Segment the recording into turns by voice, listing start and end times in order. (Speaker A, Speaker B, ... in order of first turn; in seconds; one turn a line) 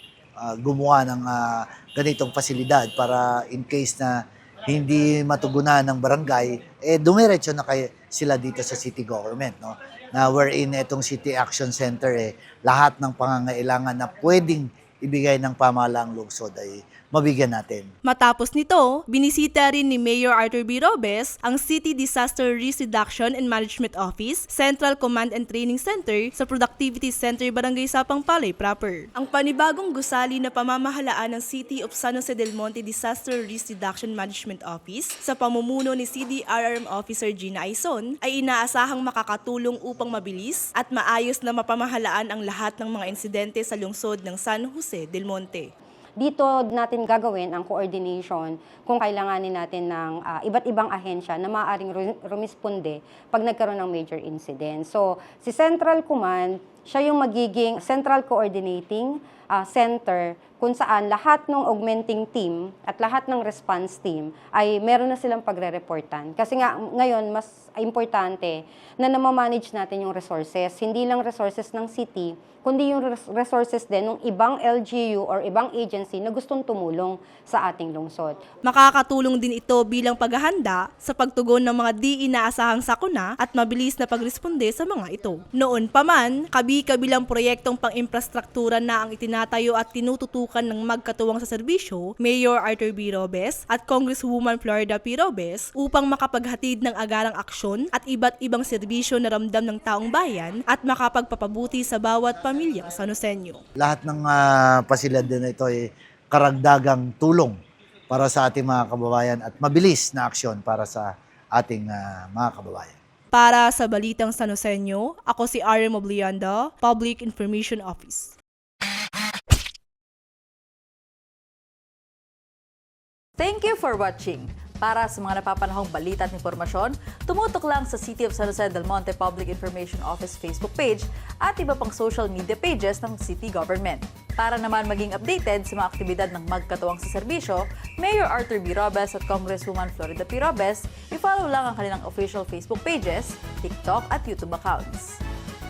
Speaker A: 0.4-17.9
Speaker B: 18.0-45.7
Speaker C: 46.2-78.4
Speaker B: 78.6-103.6
Speaker A: 103.8-107.6
Speaker A: 108.1-113.0
Speaker B: 113.3-118.3
Speaker D: 123.4-145.2